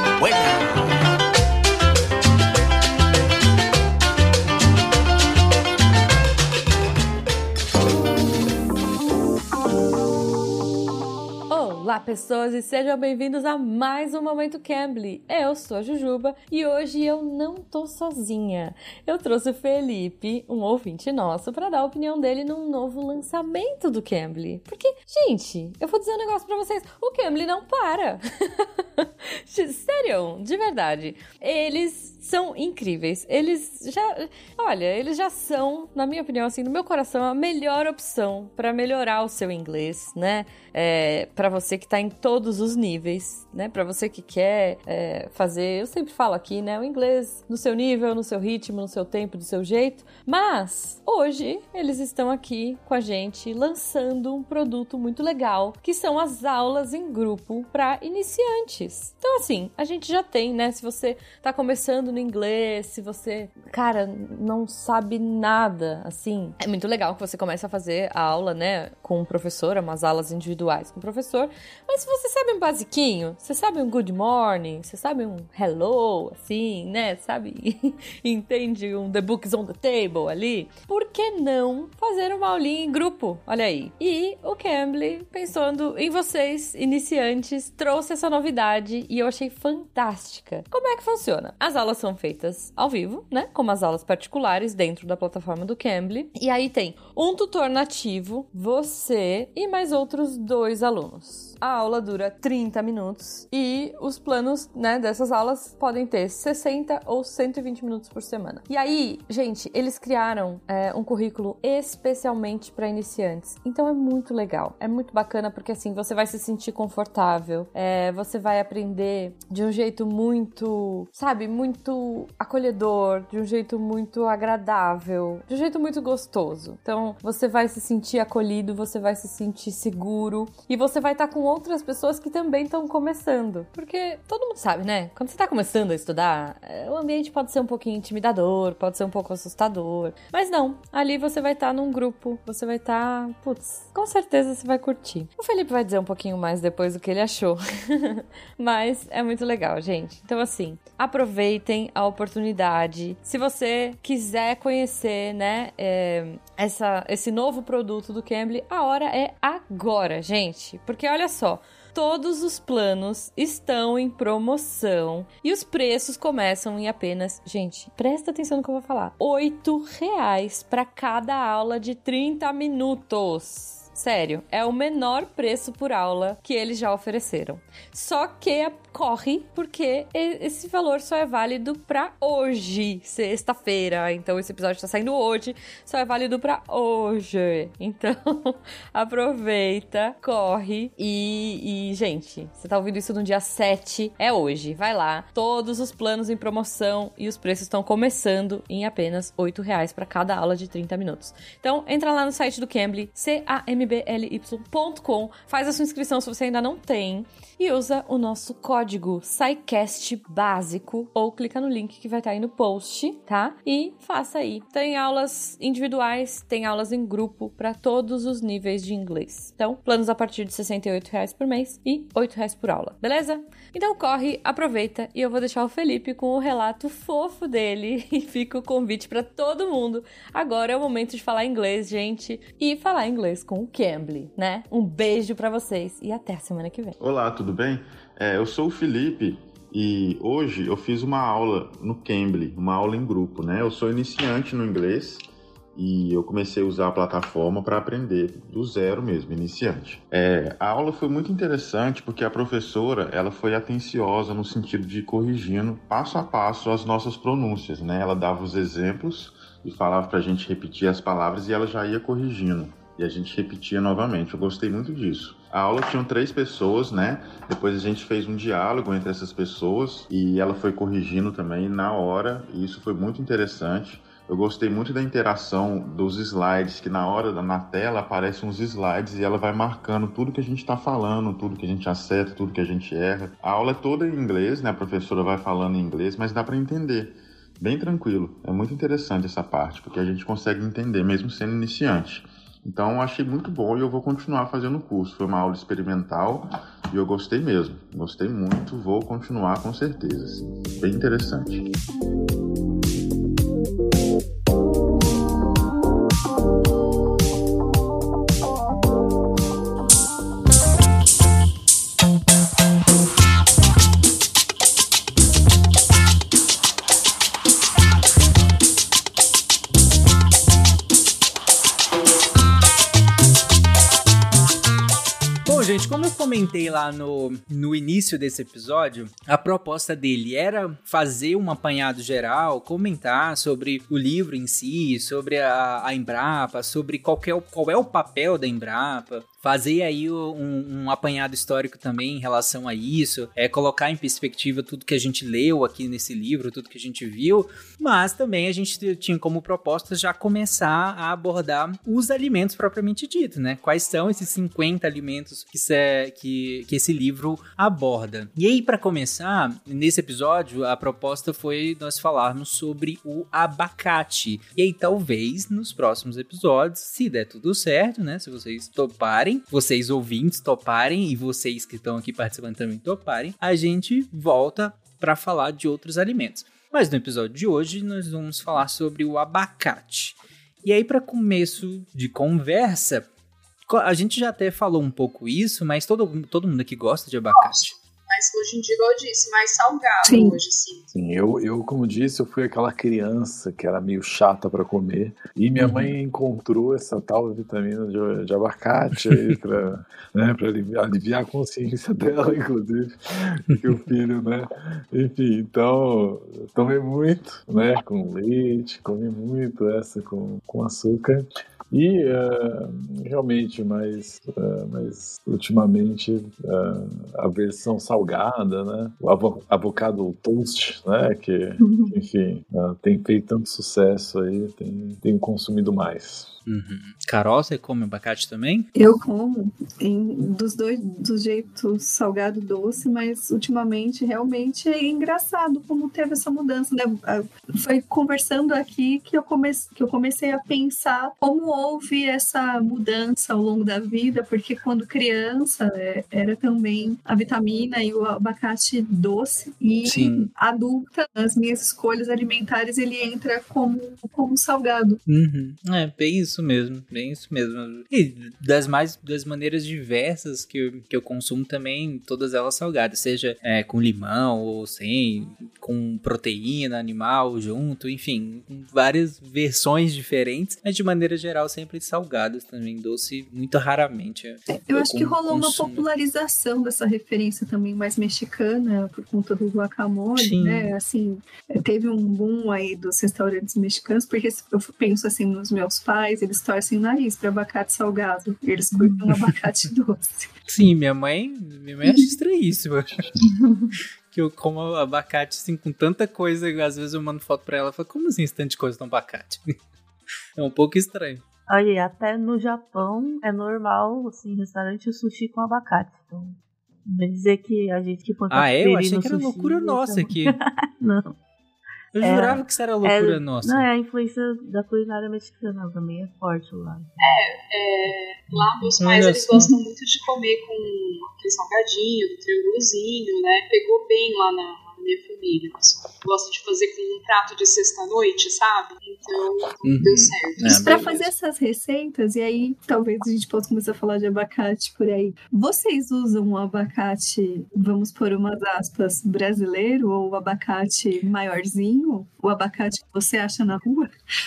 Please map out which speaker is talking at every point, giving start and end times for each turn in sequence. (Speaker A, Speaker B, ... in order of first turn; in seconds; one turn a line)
Speaker A: 11.5-236.9
Speaker B: 237.0-245.2
Speaker B: 245.8-301.7
Speaker C: 325.4-383.1
Speaker C: 383.7-387.7
Speaker D: 387.4-390.9
Speaker E: 390.1-390.4
Speaker F: 390.9-426.3
Speaker C: 395.6-395.9
Speaker C: 399.1-399.4
Speaker G: 421.6-421.9
Speaker C: 426.4-428.7
Speaker E: 428.8-455.0
Speaker C: 449.8-450.3
Speaker C: 455.1-475.9
Speaker E: 474.5-490.3
Speaker C: 480.1-480.7
Speaker C: 490.5-493.1
Speaker G: 493.2-493.7
Speaker C: 494.1-499.5
Speaker C: 500.4-501.2
Speaker G: 501.5-511.1
Speaker C: 508.3-510.3
Speaker C: 511.9-513.7
Speaker G: 512.0-516.9
Speaker D: 517.0-531.0
Speaker C: 518.8-519.5
Speaker C: 529.6-531.1
Speaker E: 530.5-543.9